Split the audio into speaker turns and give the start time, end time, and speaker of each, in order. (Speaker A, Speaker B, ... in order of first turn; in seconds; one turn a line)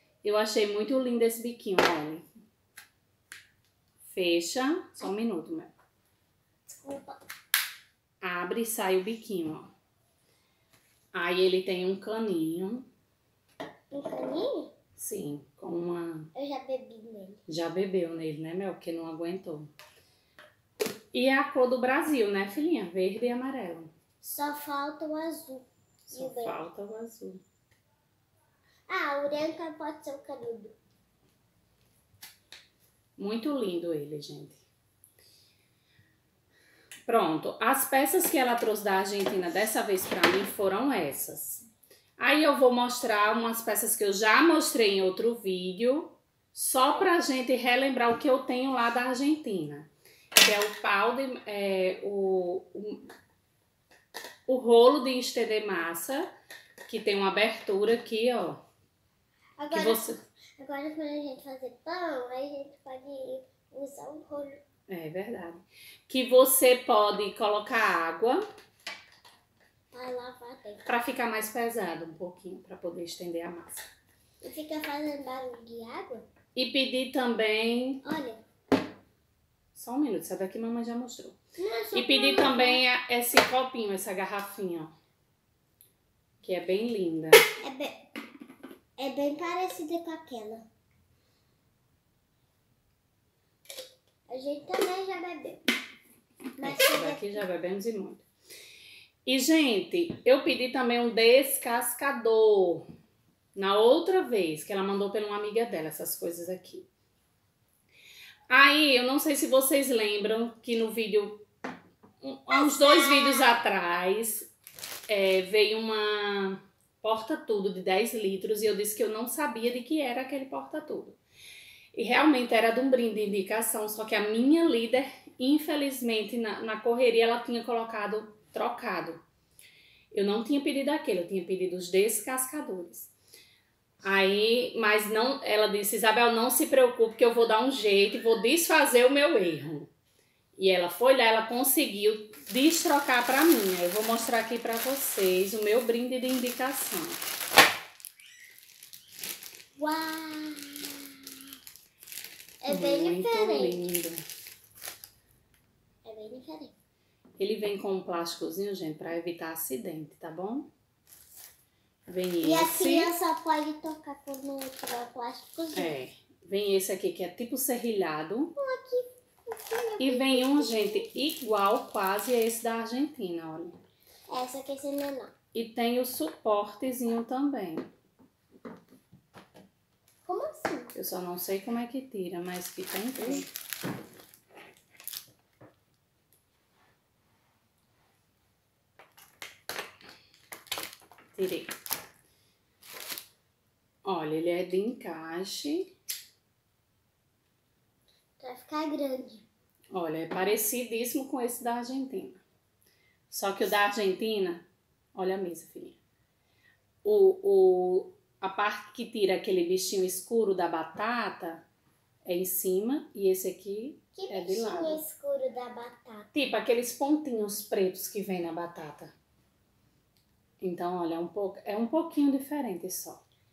Speaker A: 0.2-2.2
Speaker A: 4.0-5.7
Speaker B: 6.7-7.2
Speaker A: 8.2-9.7
Speaker A: 11.1-12.9
Speaker B: 13.9-14.7
Speaker A: 15.0-16.3
Speaker B: 16.4-17.4
Speaker A: 17.5-19.7
Speaker A: 21.1-23.9
Speaker B: 24.2-26.6
Speaker A: 26.1-27.4
Speaker B: 28.9-30.8
Speaker A: 33.2-34.6
Speaker A: 37.1-41.7
Speaker A: 42.2-53.0
Speaker A: 54.5-56.3
Speaker A: 56.9-58.6
Speaker B: 59.6-60.0
Speaker A: 59.7-60.2
Speaker B: 60.6-64.6
Speaker A: 64.9-68.4
Speaker B: 69.9-70.9
Speaker A: 70.8-73.8
Speaker B: 74.4-76.2
Speaker A: 76.5-78.0
Speaker B: 78.0-78.4
Speaker A: 79.8-81.4
Speaker B: 81.6-82.8
Speaker A: 81.9-84.9
Speaker A: 86.4-87.4
Speaker B: 87.6-88.0
Speaker B: 89.0-90.7
Speaker B: 94.3-95.6
Speaker B: 96.6-97.4
Speaker A: 96.6-98.2
Speaker A: 99.2-102.9
Speaker A: 103.5-106.9
Speaker A: 108.5-111.5
Speaker A: 112.2-114.5
Speaker B: 112.5-113.5
Speaker A: 115.1-121.2
Speaker A: 121.9-129.2
Speaker A: 130.1-133.1
Speaker A: 134.0-139.9
Speaker A: 140.6-147.2
Speaker B: 149.8-151.2
Speaker B: 152.6-153.8
Speaker A: 152.7-154.2
Speaker B: 156.1-156.7
Speaker A: 157.4-160.7
Speaker A: 162.1-163.1
Speaker B: 162.4-166.0
Speaker A: 165.7-168.5
Speaker B: 168.6-171.1
Speaker A: 170.0-173.8
Speaker B: 174.3-175.3
Speaker A: 175.5-177.9
Speaker B: 180.2-180.9
Speaker A: 180.9-183.5
Speaker A: 191.3-191.7
Speaker A: 194.1-195.9
Speaker B: 198.4-199.5
Speaker A: 199.9-202.4
Speaker A: 203.3-206.0
Speaker A: 207.0-211.7
Speaker A: 212.2-215.0
Speaker B: 214.2-216.3
Speaker A: 216.3-219.1
Speaker A: 220.6-223.2